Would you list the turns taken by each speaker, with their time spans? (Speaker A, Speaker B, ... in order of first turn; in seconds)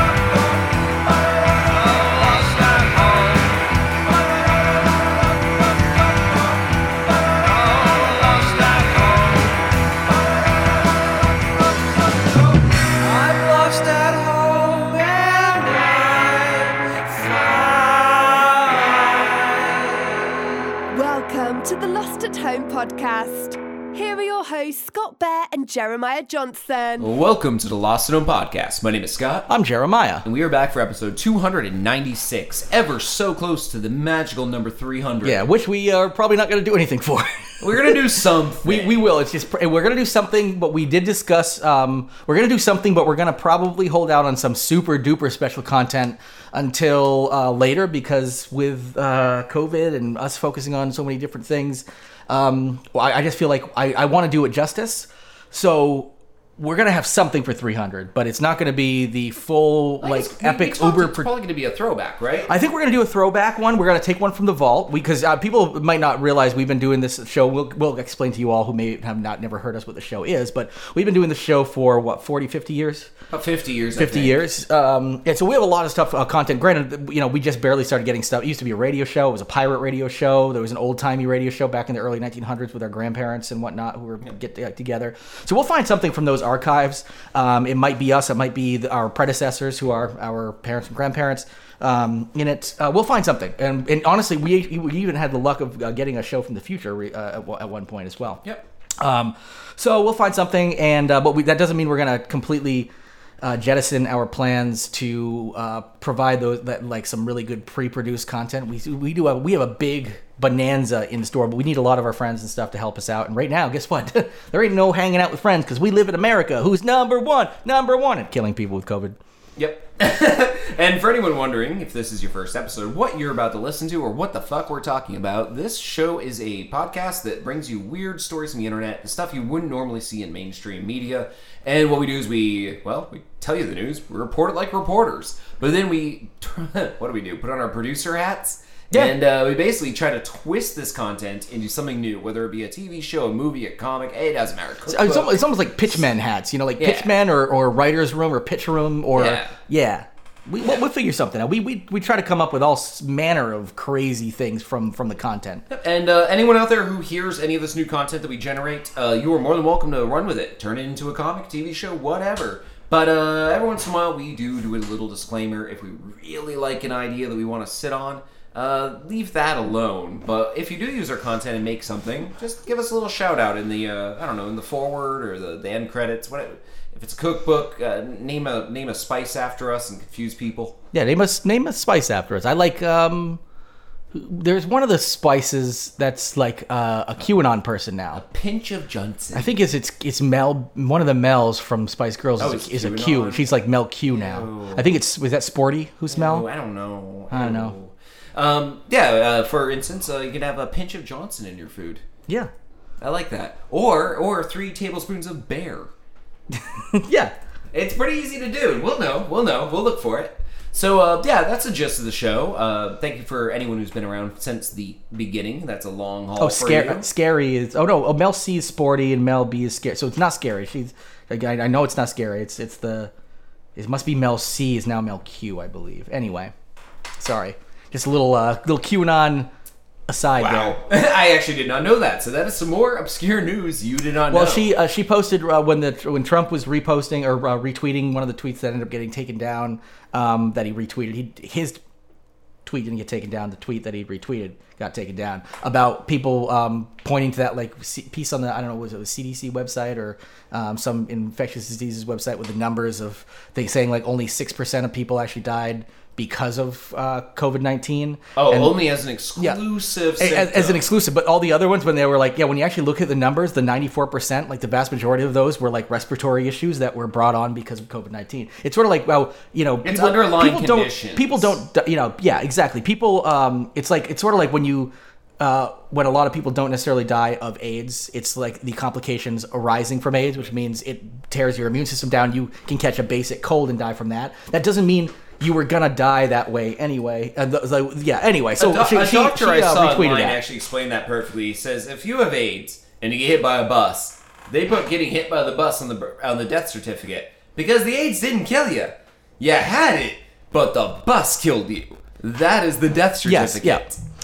Speaker A: 1.7-3.6, 7.4-9.6, 12.8-20.1, 27.0-29.5, 30.2-35.4, 37.6-39.0, 60.0-62.5, 73.3-74.4, 119.6-145.4, 146.8-147.1, 149.1-149.5, 155.7-180.8, 188.1-189.5, 192.4-193.5, 194.1-194.9, 196.1-202.0, 203.0-205.9, 207.7-217.1, 230.4-234.7, 258.4-260.8, 269.8-271.5, 288.6-304.0
Speaker B: 20.9-27.1
Speaker C: 29.5-30.2, 35.2-38.0, 38.6-61.3, 62.5-73.1, 74.0-98.4, 99.0-102.9, 103.4-119.2, 144.9-155.7, 180.9-183.4, 184.1-188.2, 189.3-196.4, 197.3-197.7, 206.5-207.3, 216.4-223.1, 223.8-226.5, 227.2-229.5, 230.1-230.8, 234.3-241.8, 242.6-258.7, 259.4-259.6, 260.2-290.4, 303.2-303.9